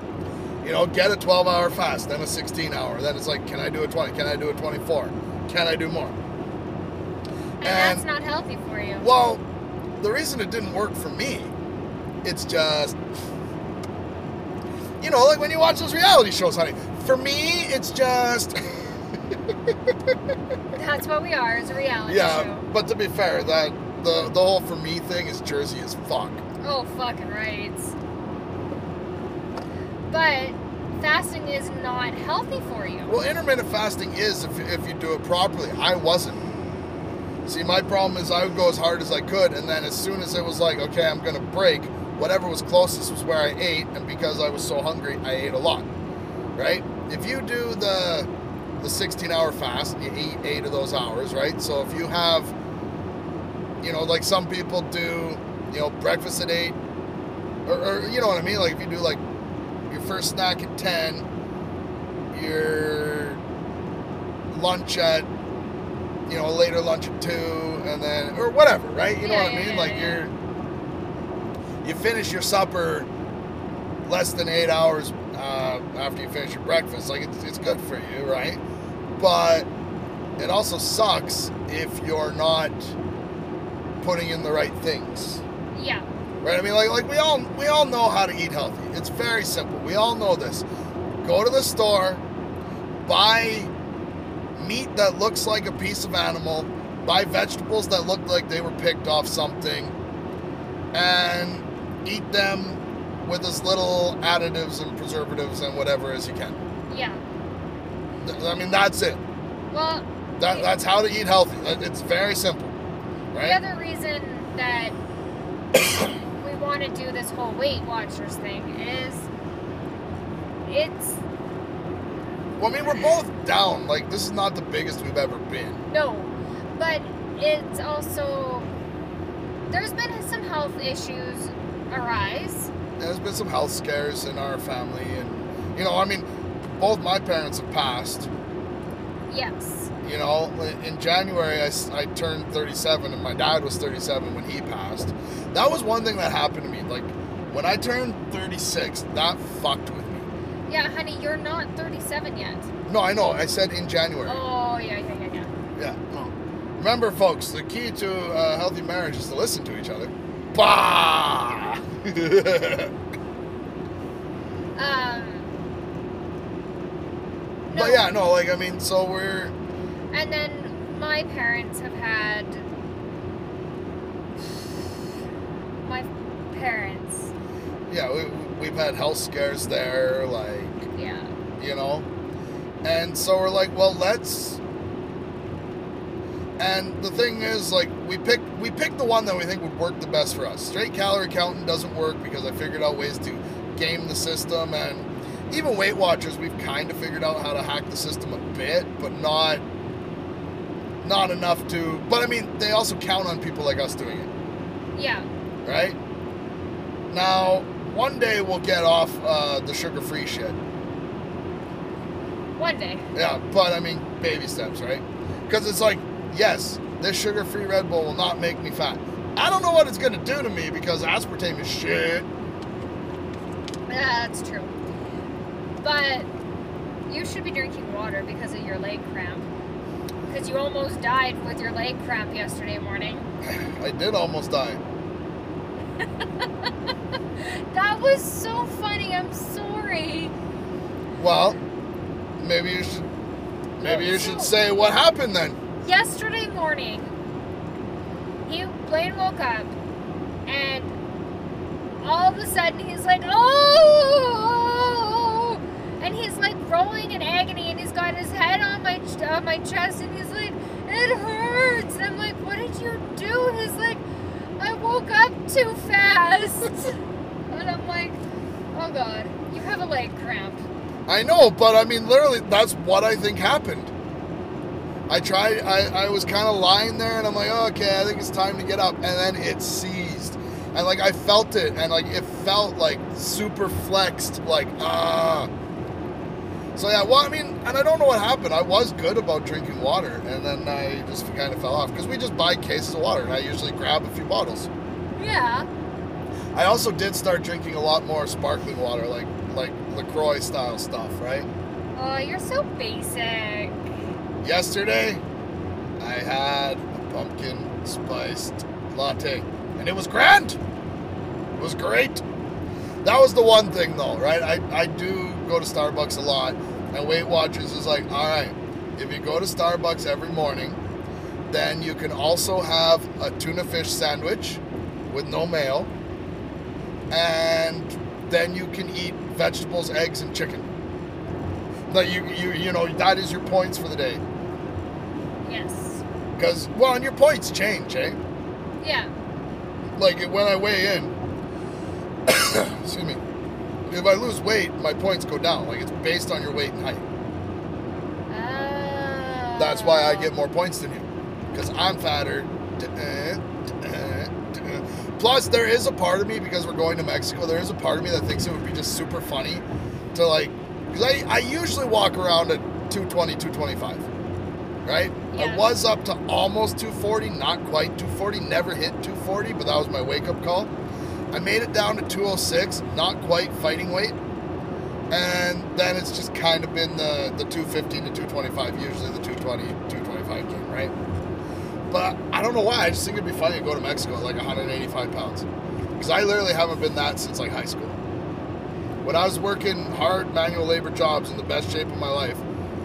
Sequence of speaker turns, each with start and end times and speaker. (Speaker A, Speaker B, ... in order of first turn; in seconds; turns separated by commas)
Speaker A: 0.6-6.2, Speaker B: 7.6-9.1, Speaker A: 7.6-8.1, Speaker A: 9.0-9.4, Speaker A: 10.0-11.5, Speaker A: 12.2-13.0, Speaker A: 15.0-20.1, Speaker B: 20.7-22.7, Speaker A: 22.1-26.4, Speaker B: 26.6-27.9, Speaker B: 30.1-33.2, Speaker A: 33.1-36.5, Speaker A: 37.4-45.9, Speaker A: 46.5-52.5, Speaker A: 53.8-56.8, Speaker A: 57.6-59.2, Speaker A: 59.9-61.2, Speaker A: 62.3-63.4, Speaker A: 64.5-65.3, Speaker A: 66.2-70.3, Speaker B: 69.2-70.3, Speaker A: 71.8-73.1, Speaker A: 74.0-78.6, Speaker A: 79.2-79.7, Speaker A: 80.4-82.9, Speaker A: 84.0-85.4, Speaker B: 85.7-86.0, Speaker A: 86.4-90.7, Speaker A: 91.2-92.2, Speaker A: 93.0-93.7, Speaker A: 94.5-99.9, Speaker A: 100.9-106.6, Speaker B: 106.9-107.2, Speaker A: 108.2-109.2, Speaker B: 109.7-110.7, Speaker A: 110.4-112.7, Speaker A: 113.3-113.6, Speaker B: 113.4-115.0, Speaker B: 116.4-119.3, Speaker B: 120.6-121.2, Speaker A: 122.6-125.8, Speaker B: 125.9-128.7, Speaker B: 129.7-132.7, Speaker A: 133.0-136.2, Speaker A: 136.8-138.3, Speaker B: 139.3-139.9, Speaker A: 140.0-150.3, Speaker B: 150.7-152.7, Speaker A: 152.9-154.4, Speaker B: 154.2-155.5, Speaker A: 155.8-162.9, Speaker B: 164.8-165.5, Speaker B: 167.7-168.0, Speaker A: 167.7-169.5, Speaker B: 170.1-172.7, Speaker B: 175.8-177.3, Speaker A: 177.9-180.9, Speaker B: 180.9-181.3, Speaker A: 181.6-182.1, Speaker A: 182.8-184.6, Speaker A: 186.6-199.6, Speaker A: 201.0-204.3, Speaker B: 204.9-205.3, Speaker A: 205.6-206.0, Speaker A: 207.1-210.6, Speaker B: 212.6-213.1, Speaker A: 213.1-222.3, Speaker B: 223.9-224.7, Speaker B: 225.8-226.3, Speaker B: 227.1-229.5, Speaker B: 230.3-233.3, Speaker A: 233.4-234.8, Speaker B: 236.0-236.7, Speaker B: 237.4-240.3, Speaker A: 241.2-241.6, Speaker A: 242.4-243.1, Speaker A: 243.8-245.6, Speaker B: 243.8-244.5, Speaker B: 245.8-247.2, Speaker B: 248.4-249.7, Speaker B: 250.5-250.9, Speaker B: 252.0-264.0, Speaker B: 264.6-266.9, Speaker B: 267.5-268.2, Speaker B: 268.7-270.6, Speaker A: 271.1-273.9, Speaker A: 275.1-285.5, Speaker A: 286.7-294.7, Speaker B: 295.1-295.7, Speaker A: 296.5-301.5, Speaker B: 301.9-303.8, Speaker A: 304.4-305.2, Speaker A: 306.0-310.6, Speaker A: 311.6-312.2, Speaker A: 313.0-320.8, Speaker A: 321.5-325.9, Speaker A: 327.1-330.7, Speaker A: 331.9-334.2, Speaker B: 335.4-336.0, Speaker A: 336.4-338.2, Speaker B: 338.8-339.1, Speaker A: 339.9-341.1, Speaker A: 342.2-343.2, Speaker A: 343.9-347.0, Speaker B: 348.3-350.3, Speaker A: 349.6-364.1, Speaker A: 364.8-370.7, Speaker B: 365.3-365.7, Speaker A: 371.3-374.2, Speaker A: 375.1-380.9, Speaker A: 381.9-385.5, Speaker A: 386.0-388.0, Speaker A: 389.0-392.4